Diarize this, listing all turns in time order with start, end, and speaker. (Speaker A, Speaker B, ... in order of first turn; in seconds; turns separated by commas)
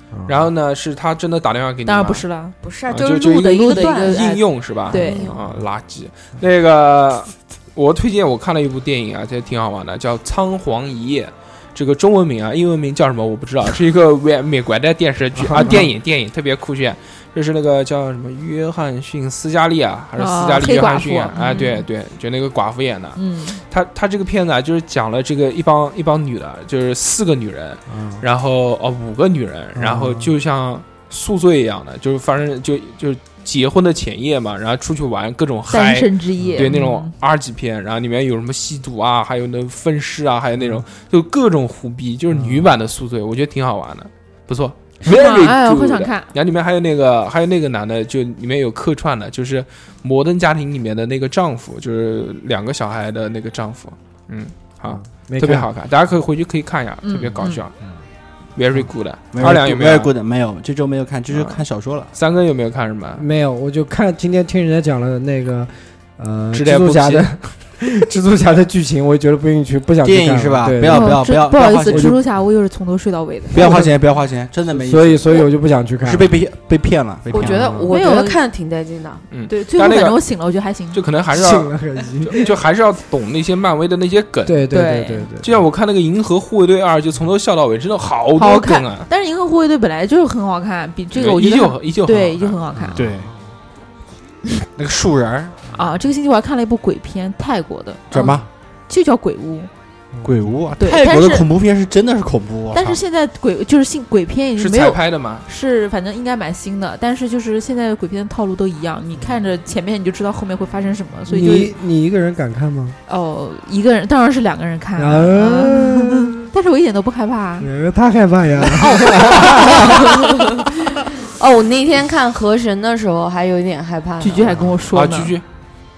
Speaker A: 0.1-0.5, Speaker B: 0.3-2.3, Speaker C: 1.9-2.6, Speaker D: 2.6-5.5, Speaker B: 2.9-57.8, Speaker C: 3.2-5.3, Speaker A: 15.3-15.9, Speaker C: 20.2-21.9, Speaker C: 23.2-23.6, Speaker A: 27.9-28.2, Speaker A: 29.8-30.3, Speaker C: 35.7-37.1, Speaker A: 36.4-36.7, Speaker A: 42.3-42.7, Speaker C: 45.0-46.3, Speaker A: 54.9-55.7, Speaker C: 57.0-57.6, Speaker B: 58.6-60.1, Speaker E: 59.3-62.1, Speaker B: 61.3-61.6, Speaker B: 62.1-63.2, Speaker A: 63.2-71.3, Speaker B: 66.5-67.4, Speaker E: 70.0-72.2, Speaker C: 70.9-73.6, Speaker A: 71.9-72.2, Speaker E: 73.5-75.5, Speaker A: 73.5-74.0, Speaker A: 74.7-76.3, Speaker E: 76.0-77.8, Speaker C: 77.3-78.4, Speaker D: 77.3-79.2, Speaker A: 77.3-77.9, Speaker B: 79.3-80.2, Speaker C: 79.5-81.0, Speaker B: 80.9-84.7, Speaker A: 81.3-82.5, Speaker A: 84.5-85.6, Speaker C: 84.7-85.3, Speaker B: 85.4-89.1, Speaker C: 88.4-93.1, Speaker B: 91.2-92.6, Speaker A: 92.8-93.4, Speaker E: 93.0-93.3, Speaker E: 94.8-95.5, Speaker C: 95.7-98.3, Speaker E: 98.1-98.5, Speaker C: 98.9-99.7, Speaker A: 100.2-100.5, Speaker E: 100.2-103.0, Speaker C: 100.8-101.5, Speaker C: 102.7-111.7, Speaker B: 104.6-105.5, Speaker A: 111.3-113.0, Speaker C: 113.1-117.7, Speaker A: 115.0-116.4, Speaker A: 117.6-120.2, Speaker D: 118.9-120.3, Speaker D: 121.2-124.7, Speaker C: 124.2-125.3, Speaker B: 124.9-125.5